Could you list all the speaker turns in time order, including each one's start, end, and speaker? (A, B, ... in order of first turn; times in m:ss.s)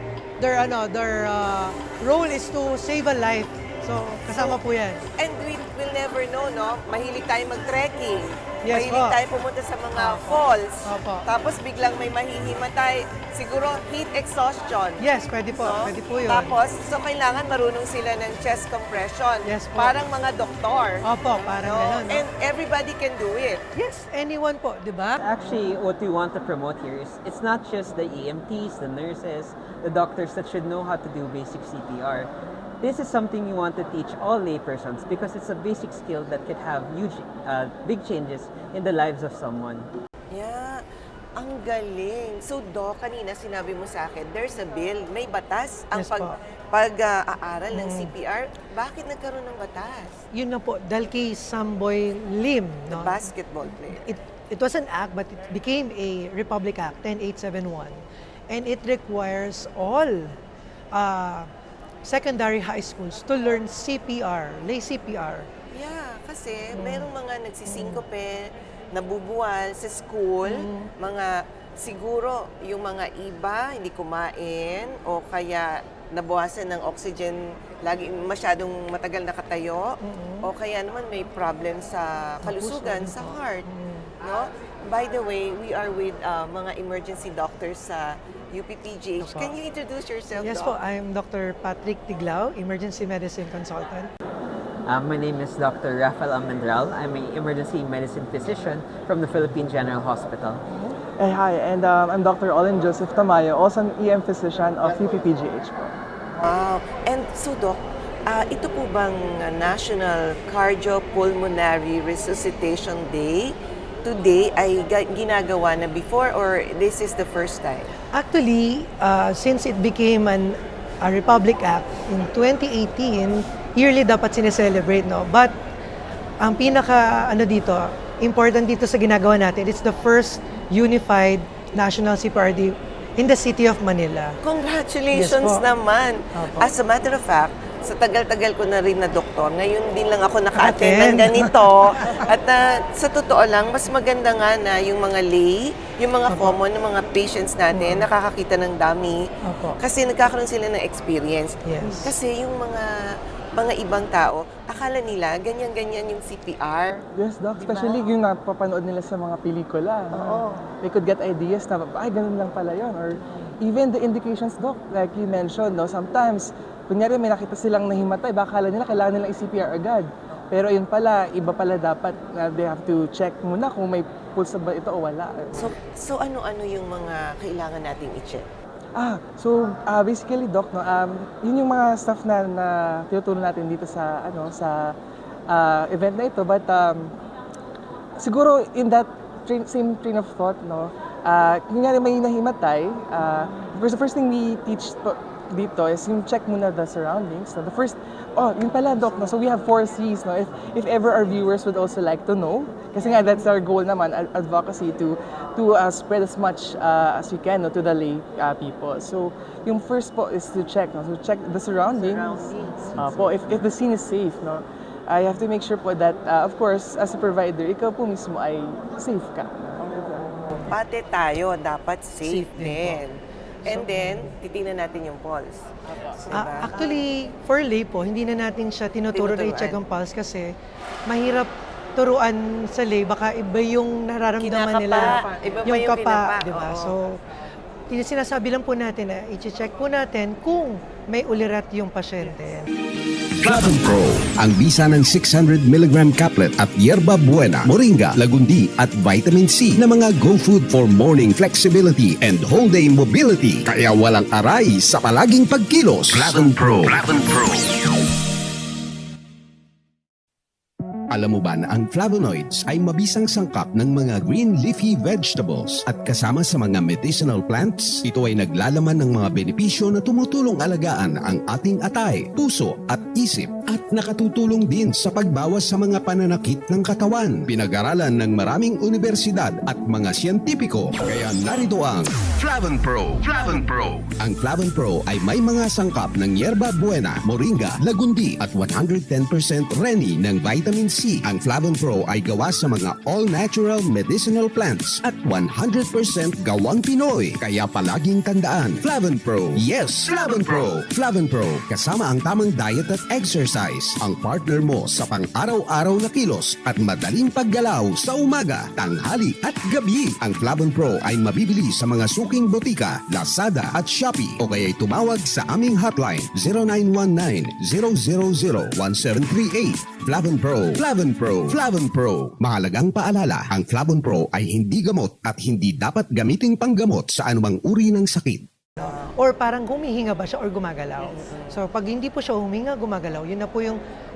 0:00.4-0:05.0 A
0:04.3-0:23.6 B
0:08.7-0:09.1 A
0:10.0-0:11.2 A
0:15.0-0:16.5 A
0:19.5-0:19.9 A
0:21.1-0:22.2 A
0:23.8-0:25.1 A
0:25.2-0:32.3 C
0:32.8-0:39.9 C
0:40.3-0:40.8 B
0:41.4-0:50.2 B
0:46.0-0:46.3 A
0:47.8-0:48.0 A
0:50.3-0:53.1 A
0:52.9-0:54.0 B
0:54.0-0:58.0 A
0:58.5-1:00.3 A
1:00.9-1:01.5 A
1:02.0-1:05.5 A
1:05.7-1:23.6 B
1:20.0-1:20.4 A
1:22.5-1:23.2 A
1:23.7-1:24.0 A
1:24.2-1:30.8 B
1:30.4-1:34.1 A
1:34.9-1:40.6 C
1:41.2-1:45.9 D
1:46.4-1:53.5 B
1:54.0-1:57.9 B
1:58.1-2:05.5 A
2:06.4-2:14.3 A
2:14.4-2:29.2 B
2:15.1-2:15.6 A
2:20.6-2:21.5 A
2:29.8-2:32.9 B
2:31.6-2:32.0 A
2:33.6-2:37.0 B
2:37.1-2:55.7 D
2:37.7-2:38.0 B
2:40.1-2:40.6 B
2:55.6-2:58.4 B
2:59.0-3:05.0 D
3:05.5-3:07.1 D
3:08.2-3:39.8 D
3:31.9-3:33.6 B
3:39.8-3:47.0 B
3:42.2-3:43.0 A
3:46.3-3:50.5 A
3:49.1-3:49.8 B
3:51.1-3:57.2 A
3:54.4-3:57.0 B
3:57.9-4:02.6 A
4:03.4-4:17.3 E
4:21.1-5:28.4 E
5:28.8-5:29.2 B
5:29.2-5:31.0 A
5:31.0-5:31.6 B
5:31.5-5:33.8 A